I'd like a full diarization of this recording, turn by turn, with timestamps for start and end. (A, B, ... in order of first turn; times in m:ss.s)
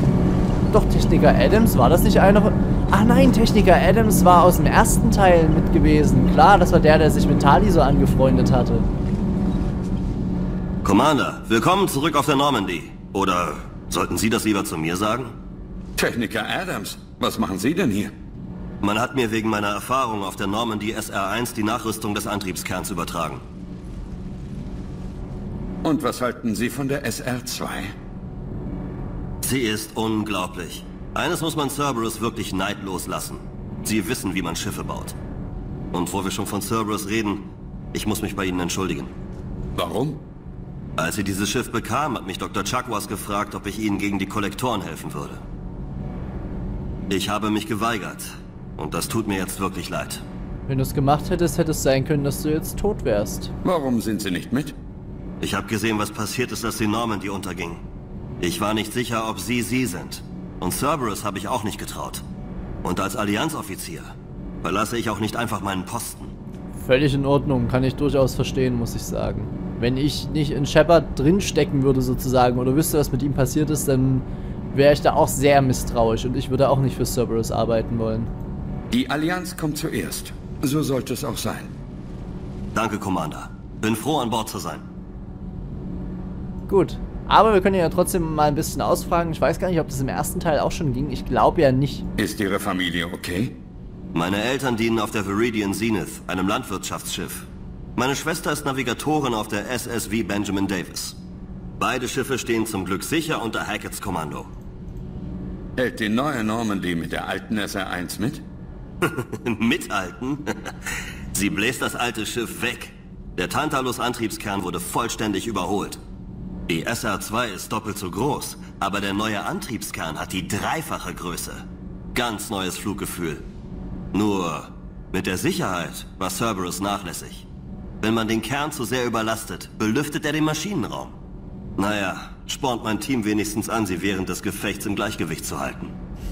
0:00.7-0:08.9 A
0:10.8-0:15.4 B
0:16.0-0:18.1 C
0:18.8-0:23.4 B
0:25.8-0:27.9 C
0:29.4-0:35.2 B
0:35.9-0:39.1 B
0:39.8-0:40.2 C
0:41.0-0:45.4 B
0:47.1-0:50.2 B
0:50.7-0:53.5 A
0:53.6-0:54.7 C
0:55.4-0:57.8 B
0:58.4-1:02.2 B
1:02.8-1:06.3 B
1:06.8-1:18.3 A
1:18.9-1:21.7 C
1:22.7-1:24.8 B
1:26.7-1:32.0 A
1:32.2-1:33.6 C
1:34.1-1:41.2 B
1:41.8-1:44.5 B
1:45.8-1:48.4 C
1:49.0-1:56.0 B
1:56.7-2:03.5 B
2:04.1-2:07.4 B
2:08.0-2:11.2 B
2:11.8-2:15.9 B